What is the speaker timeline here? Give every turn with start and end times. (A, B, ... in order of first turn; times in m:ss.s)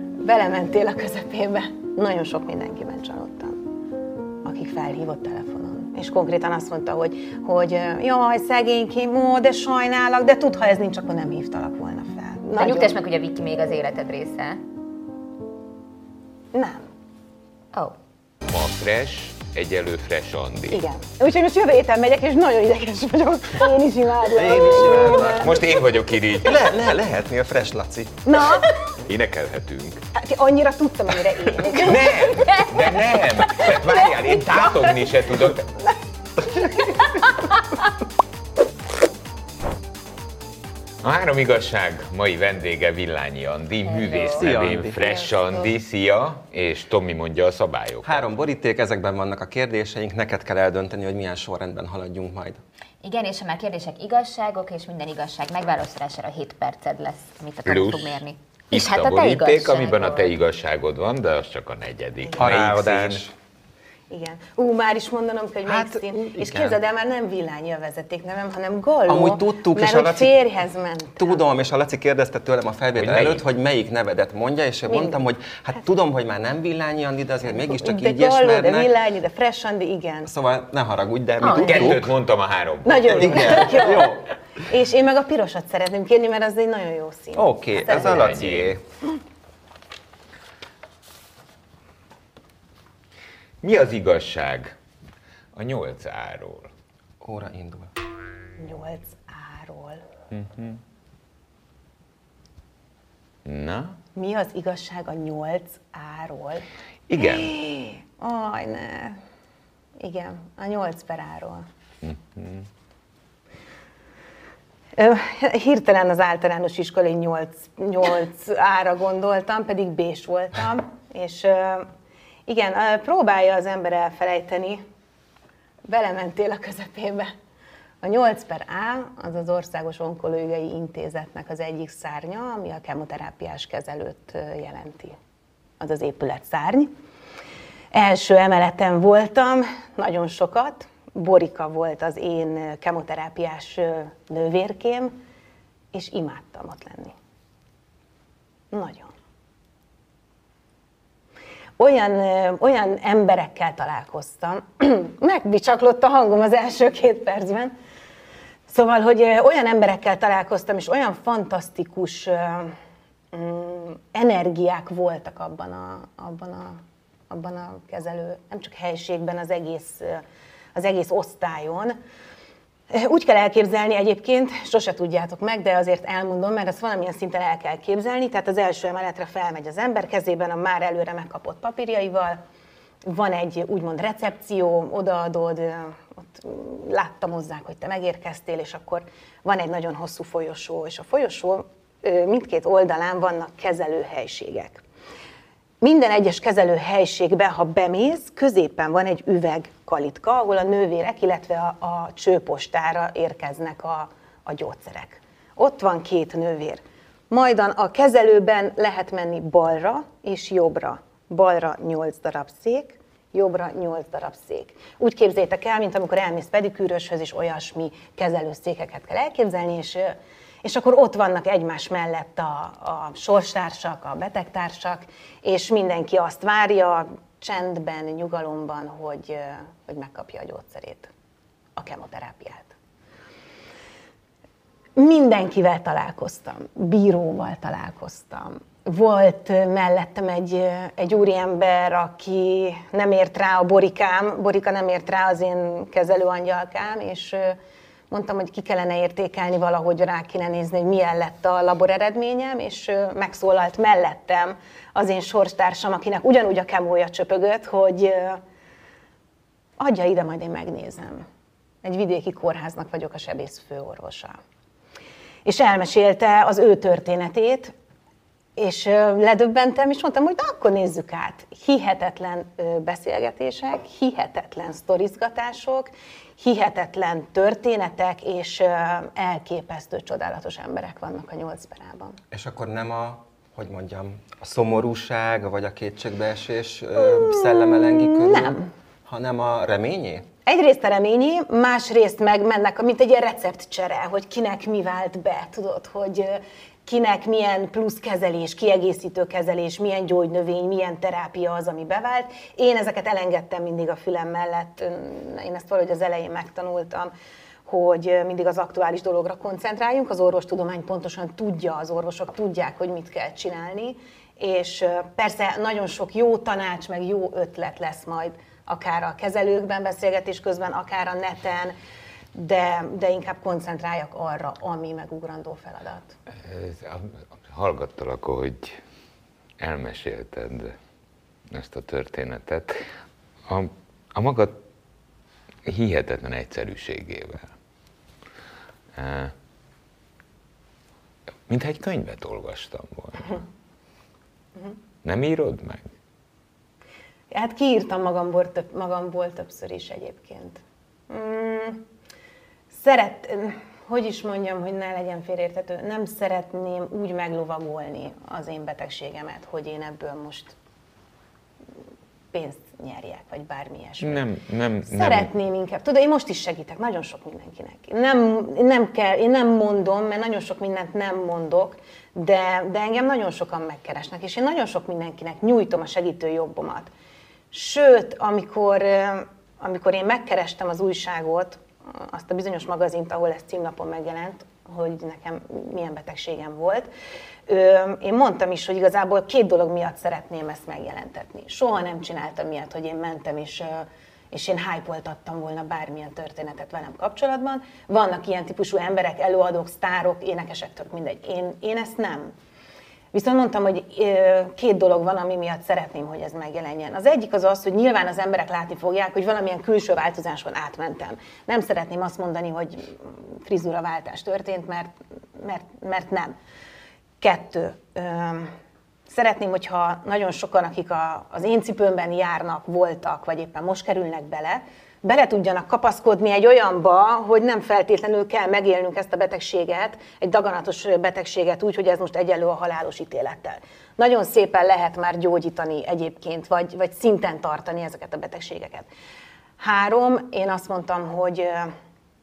0:00.2-0:03.6 A
0:04.4-0:13.0 A
0:12.6-0:14.6 B
0:16.5-0:16.8 A
0:18.4-0:20.8 C
0:20.7-0:25.5 A
0:24.2-0:25.8 D
0:25.2-0:26.7 C
0:26.4-0:28.4 D
0:28.2-0:28.8 A
0:29.0-0:30.0 C
0:30.1-0:32.6 A
0:31.7-0:35.7 C
0:41.0-0:48.2 C
0:43.8-0:44.5 B
0:44.3-0:45.3 D
0:48.0-0:52.6 D
0:53.0-1:00.3 B
0:57.6-1:03.2 C
1:02.4-1:03.3 D
1:04.1-1:11.4 A
1:05.6-1:06.8 D
1:09.1-1:10.4 D
1:11.2-1:18.9 D
1:13.0-1:13.4 C
1:14.9-1:15.2 A
1:17.7-1:20.3 A
1:20.3-1:22.1 D
1:21.4-1:21.8 B
1:21.4-1:24.0 C
1:22.8-1:28.4 A
1:23.1-1:24.2 D
1:27.4-1:28.8 D
1:27.9-1:28.8 C
1:33.6-1:34.7 C
1:35.5-1:36.7 C
1:37.2-1:37.9 D
1:38.6-1:40.0 A
1:40.3-1:40.8 C
1:43.4-1:44.0 C
1:44.1-1:49.2 A
1:47.1-1:47.5 C
1:50.0-1:51.6 A
1:52.0-1:52.6 C
1:55.0-2:01.9 A
2:02.5-2:04.8 A
2:05.8-2:07.3 A
2:08.0-2:15.2 A
2:15.8-2:16.9 A
2:17.9-2:25.1 A
2:25.9-2:27.1 A
2:28.7-2:29.1 A
2:31.8-2:37.7 A
2:38.7-2:42.8 A
2:43.3-2:50.2 A
2:50.7-2:52.0 A
2:52.9-3:02.4 A
3:03.0-3:14.8 A
3:15.8-3:51.1 A
3:51.8-3:52.7 A
3:55.0-4:07.6 A
4:08.1-4:18.4 A
4:19.8-4:21.2 A
4:21.8-4:24.4 A
4:25.4-4:27.7 A
4:28.6-4:42.2 A
4:42.3-4:50.3 D
4:47.0-4:48.7 A
4:50.4-5:07.1 A
5:07.6-5:21.7 A
5:22.3-5:26.1 A
5:26.4-5:28.8 C
5:29.6-5:30.8 C
5:31.5-5:32.8 C
5:33.5-5:34.6 C
5:35.6-5:37.5 C
5:39.0-5:39.3 C
5:41.5-5:43.4 C
5:45.0-5:45.9 C
5:47.3-5:51.8 A
5:52.7-6:00.5 A
6:02.3-6:04.2 A
6:04.0-6:05.3 C
6:04.8-6:16.9 A
6:17.5-6:26.9 A
6:27.5-6:42.3 A
6:43.1-6:56.3 A
6:57.2-6:58.5 A
6:59.1-7:18.9 A
7:19.6-7:21.7 A